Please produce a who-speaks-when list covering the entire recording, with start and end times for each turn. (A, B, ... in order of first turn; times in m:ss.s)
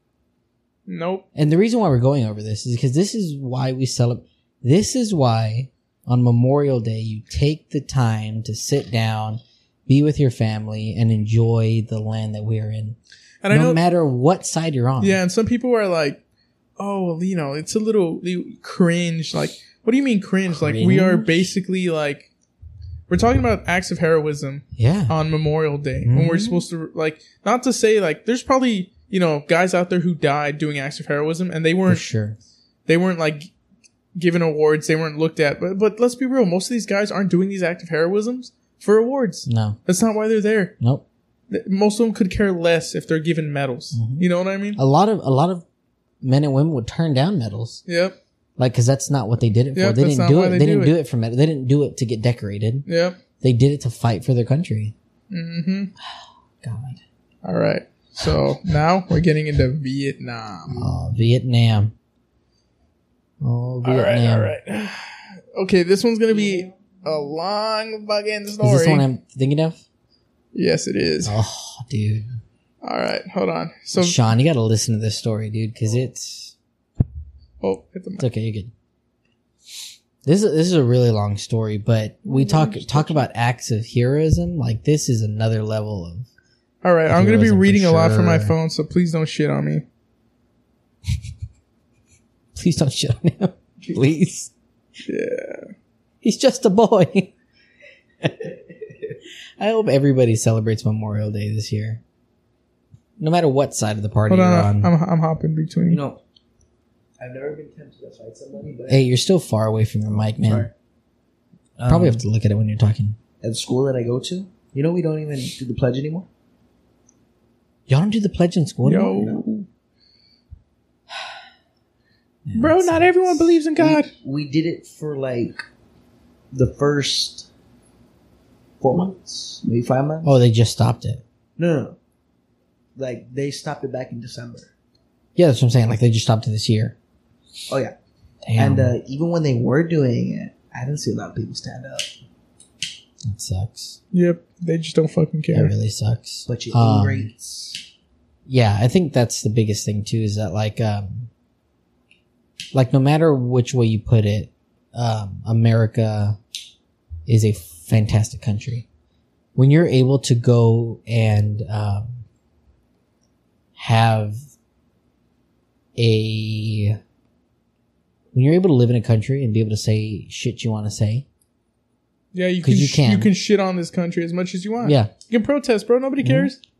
0:00.9-0:01.2 A
0:01.4-0:13.0 B
0:13.4-0:13.8 A
0:13.5-0:15.2 B
0:15.0-0:16.2 A
0:16.8-0:22.3 A
0:20.5-0:21.5 B
0:23.1-0:32.1 A
0:24.8-0:25.2 B
0:26.0-0:26.6 B
0:31.9-0:32.4 B
0:32.9-0:33.5 A
0:34.2-0:40.7 A
0:39.5-0:39.8 B
0:41.5-0:44.8 A
0:43.9-0:44.2 B
0:44.8-0:45.6 B
0:46.2-0:47.8 B
0:47.9-0:48.2 A
0:48.6-0:52.9 B
0:49.8-0:51.0 A
0:52.9-0:53.2 A
0:53.4-0:54.9 B
0:55.3-0:55.9 A
0:56.6-0:57.0 B
0:57.4-1:00.9 A
0:58.2-0:58.5 B
1:00.7-1:01.9 B
1:03.4-1:04.5 B
1:03.8-1:09.1 A
1:08.6-1:09.8 B
1:10.5-1:11.4 A
1:11.2-1:12.3 B
1:12.8-1:14.2 A
1:14.0-1:16.6 B
1:17.6-1:18.3 A
1:18.2-1:18.7 B
1:20.2-1:26.3 B
1:22.2-1:23.2 A
1:26.8-1:29.8 A
1:27.1-1:28.6 B
1:32.6-1:34.5 B
1:35.1-1:35.7 A
1:36.2-1:37.3 B
1:39.6-1:42.0 B
1:43.2-1:44.9 B
1:44.3-1:46.0 A
1:45.9-1:46.2 C
1:47.2-1:49.0 C
1:48.9-1:50.7 B
1:50.2-1:50.7 C
1:51.8-1:52.2 C
1:51.8-1:53.2 B
1:53.4-1:56.3 C
1:57.9-1:59.3 B
1:58.8-1:59.5 A
1:59.2-1:59.5 C
2:02.4-2:03.6 B
2:02.6-2:04.1 A
2:03.8-2:05.6 C
2:06.5-2:07.5 C
2:08.8-2:10.4 C
2:10.2-2:11.2 B
2:11.6-2:12.0 C
2:13.0-2:14.7 C
2:15.4-2:17.0 B
2:18.4-2:18.9 B
2:18.6-2:22.1 C
2:23.2-2:24.0 B
2:24.1-2:25.7 A
2:25.5-2:27.3 B
2:26.5-2:27.9 C
2:28.5-2:31.3 B
2:32.7-2:36.4 B
2:37.3-2:38.9 B
2:39.6-2:42.2 B
2:43.8-2:44.4 B
2:46.0-2:47.0 B
2:48.3-2:51.2 B
2:52.3-2:56.6 A
2:52.6-2:53.3 B
2:54.8-2:55.1 B
2:56.2-2:56.5 B